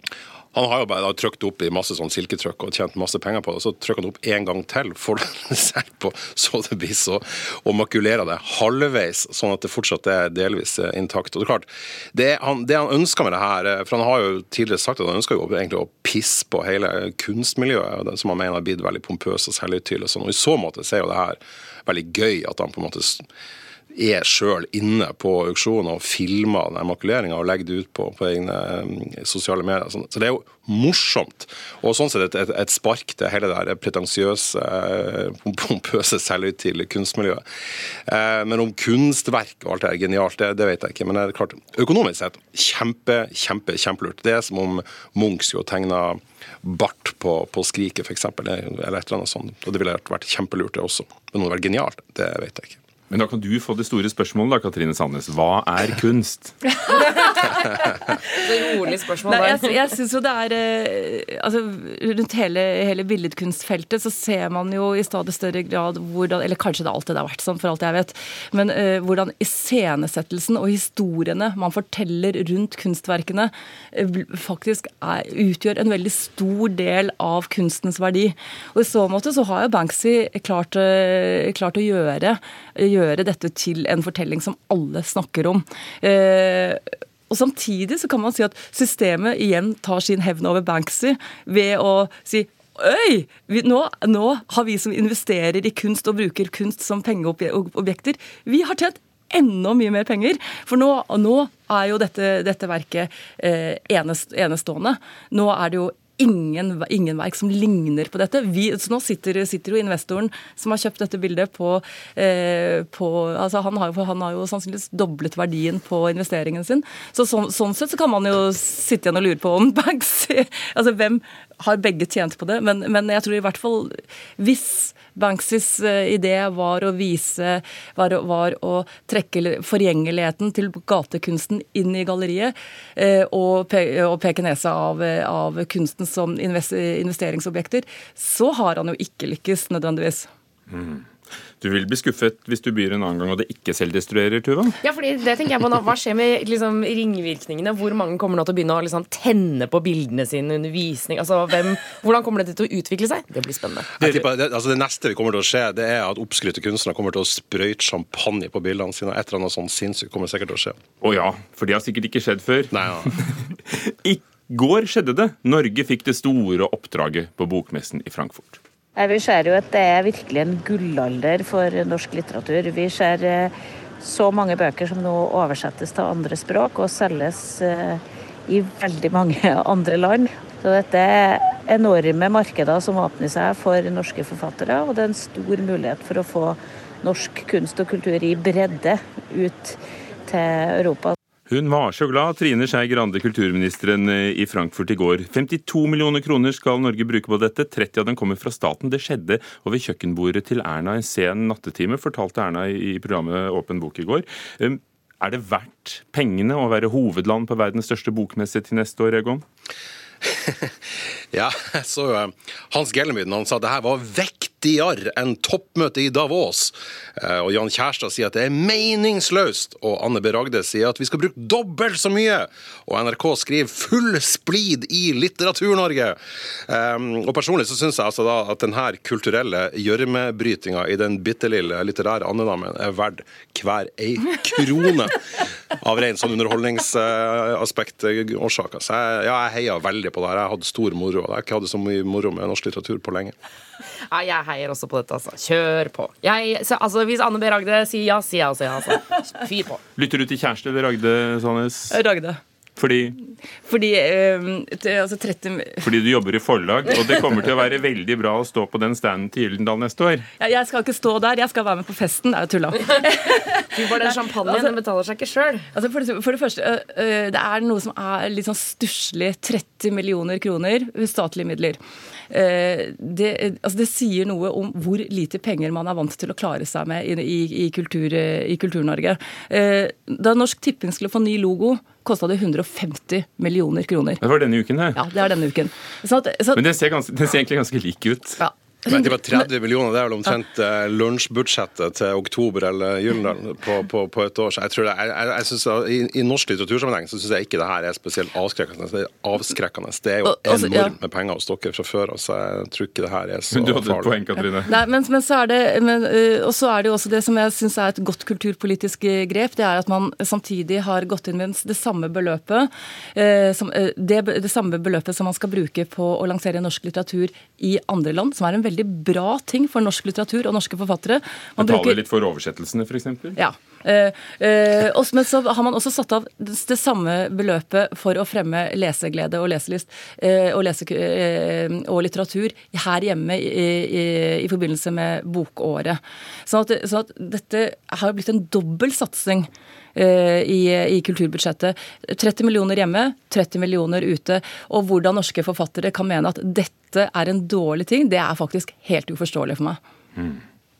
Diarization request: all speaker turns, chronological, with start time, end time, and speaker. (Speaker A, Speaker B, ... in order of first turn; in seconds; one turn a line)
Speaker A: 0.5-23.2
Speaker A: 23.9-37.4
Speaker A: 38.1-52.8
Speaker B: 53.1-56.7
Speaker C: 56.9-57.4
Speaker C: 58.2-59.9
Speaker D: 59.4-140.3
Speaker B: 140.7-141.1
Speaker B: 141.6-144.8
Speaker C: 144.8-154.1
Speaker A: 154.0-160.8
Speaker B: 161.0-168.6
Speaker A: 162.7-163.1
Speaker E: 169.0-191.1
Speaker B: 191.5-209.4
Speaker A: 210.2-210.7
Speaker A: 211.3-235.2
Speaker A: 235.7-243.3
Speaker C: 244.0-249.8
Speaker B: 249.9-252.1
Speaker D: 252.1-252.4
Speaker B: 252.8-253.2
Speaker D: 253.6-255.7
Speaker B: 255.8-260.2
Speaker D: 260.4-263.7
Speaker C: 263.6-265.6
Speaker D: 265.7-271.8
Speaker D: 272.3-284.2
Speaker B: 284.2-285.1
Speaker D: 285.3-286.4
Speaker B: 286.5-288.4
Speaker A: 288.9-304.1
Speaker B: 303.5-304.8
Speaker D: 304.8-321.9
Speaker B: 321.6-323.4
Speaker D: 323.4-349.8